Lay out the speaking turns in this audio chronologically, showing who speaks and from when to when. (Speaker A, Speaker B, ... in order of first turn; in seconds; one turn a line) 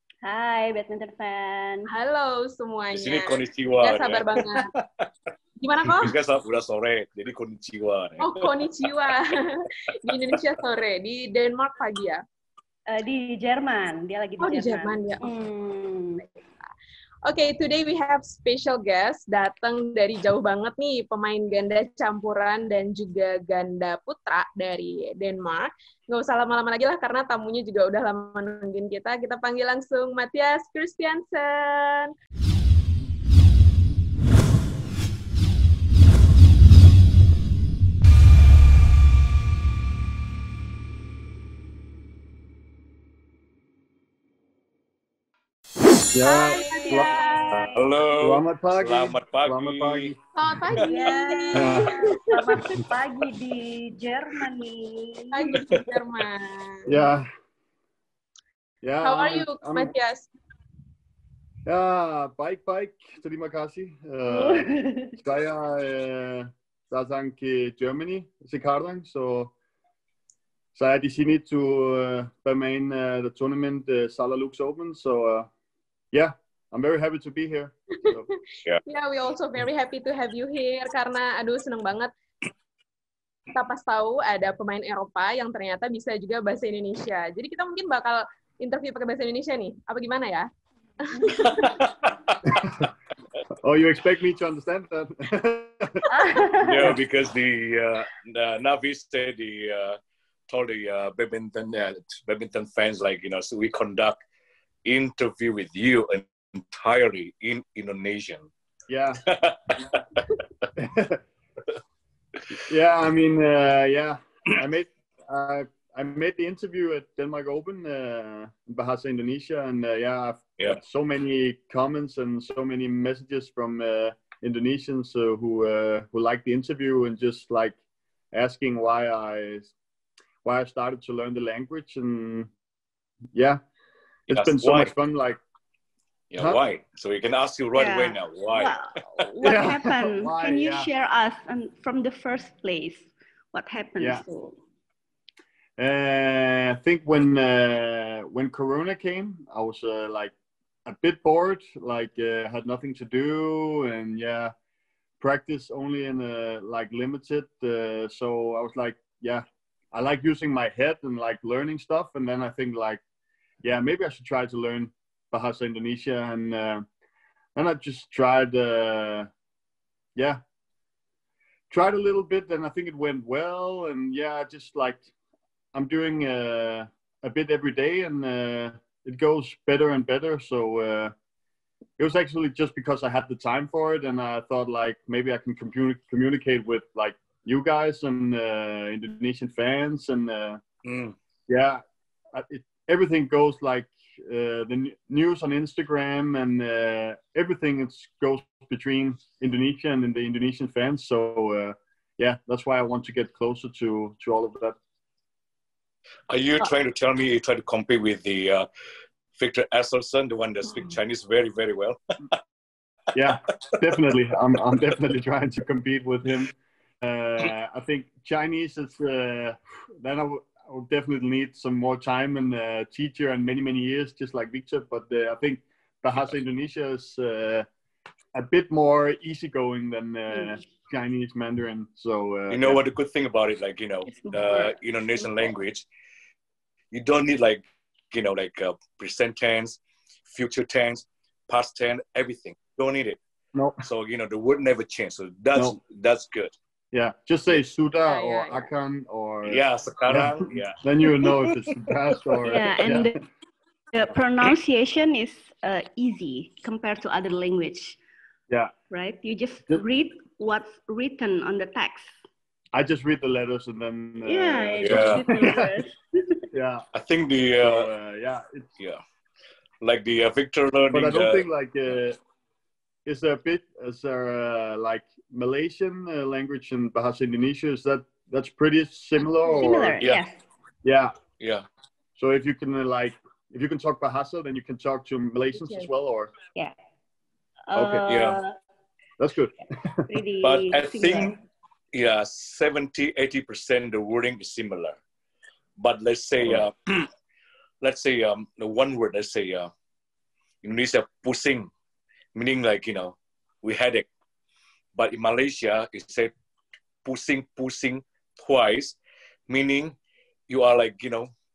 Speaker A: 0.2-1.9
Speaker B: 1.9-4.7
Speaker C: 2.9-5.0
Speaker B: 5.6-6.1
Speaker C: 5.9-8.5
Speaker B: 8.2-12.2
Speaker A: 12.9-16.2
Speaker B: 14.4-15.3
Speaker B: 16.2-16.7
Speaker B: 17.2-32.1
Speaker D: 46.1-50.2
Speaker B: 46.2-47.6
Speaker A: 46.6-47.9
Speaker C: 47.7-50.1
Speaker B: 50.4-52.4
Speaker A: 50.8-55.5
Speaker D: 51.5-52.0
Speaker B: 55.3-57.0
Speaker D: 56.9-57.3
Speaker D: 58.8-59.9
Speaker B: 59.0-60.3
Speaker D: 61.6-69.5
Speaker A: 64.3-65.1
Speaker D: 70.7-75.5
Speaker D: 76.1-78.3
Speaker B: 78.8-82.1
Speaker B: 83.5-90.5
Speaker B: 91.0-91.8
Speaker C: 91.4-92.3
Speaker D: 92.5-92.8
Speaker D: 93.6-96.1
Speaker A: 96.1-96.9
Speaker C: 96.6-100.0
Speaker C: 100.5-104.2
Speaker C: 104.8-108.5
Speaker D: 108.9-109.2
Speaker C: 109.2-110.3
Speaker D: 110.8-111.2
Speaker D: 112.7-127.8
Speaker D: 128.3-129.7
Speaker D: 130.4-132.5
Speaker D: 133.3-133.6
Speaker D: 134.3-135.4
Speaker C: 134.3-134.9
Speaker C: 136.3-138.7
Speaker D: 136.4-136.6
Speaker A: 137.7-144.6
Speaker D: 139.4-140.9
Speaker D: 145.8-150.3
Speaker D: 150.8-154.5
Speaker D: 155.2-163.0
Speaker D: 163.6-166.8
Speaker D: 167.5-169.3
Speaker D: 171.7-175.1
Speaker D: 175.7-181.1
Speaker D: 182.0-190.6
Speaker C: 190.8-191.1
Speaker D: 191.5-191.8
Speaker D: 192.3-204.8
Speaker C: 206.3-208.7
Speaker C: 209.3-212.0
Speaker D: 213.1-227.7
Speaker D: 228.3-232.8
Speaker C: 232.5-235.8
Speaker A: 234.1-235.3
Speaker C: 236.9-243.2
Speaker D: 243.5-243.8
Speaker C: 243.8-246.5
Speaker D: 246.9-253.1
Speaker B: 248.0-248.7
Speaker C: 249.4-250.8
Speaker A: 252.4-253.2
Speaker A: 253.9-258.0
Speaker A: 258.9-262.1
Speaker D: 262.7-265.5
Speaker A: 264.2-266.4
Speaker C: 264.8-265.2
Speaker D: 266.5-266.9
Speaker C: 266.9-267.9
Speaker D: 267.6-268.7
Speaker C: 269.8-271.4
Speaker D: 270.9-272.2
Speaker D: 273.0-280.0
Speaker A: 279.4-280.4
Speaker D: 280.8-281.1
Speaker C: 281.4-281.6
Speaker D: 282.2-286.3
Speaker B: 285.5-285.9
Speaker A: 287.7-288.5
Speaker D: 287.7-288.1
Speaker C: 288.1-288.4
Speaker D: 289.2-290.1
Speaker A: 290.1-291.4
Speaker C: 290.4-291.4
Speaker C: 291.9-295.0
Speaker C: 295.8-297.1
Speaker C: 297.8-299.7
Speaker C: 300.6-301.7
Speaker C: 302.3-304.1
Speaker C: 304.9-306.3
Speaker C: 307.0-309.0
Speaker C: 309.5-309.9
Speaker C: 310.5-311.3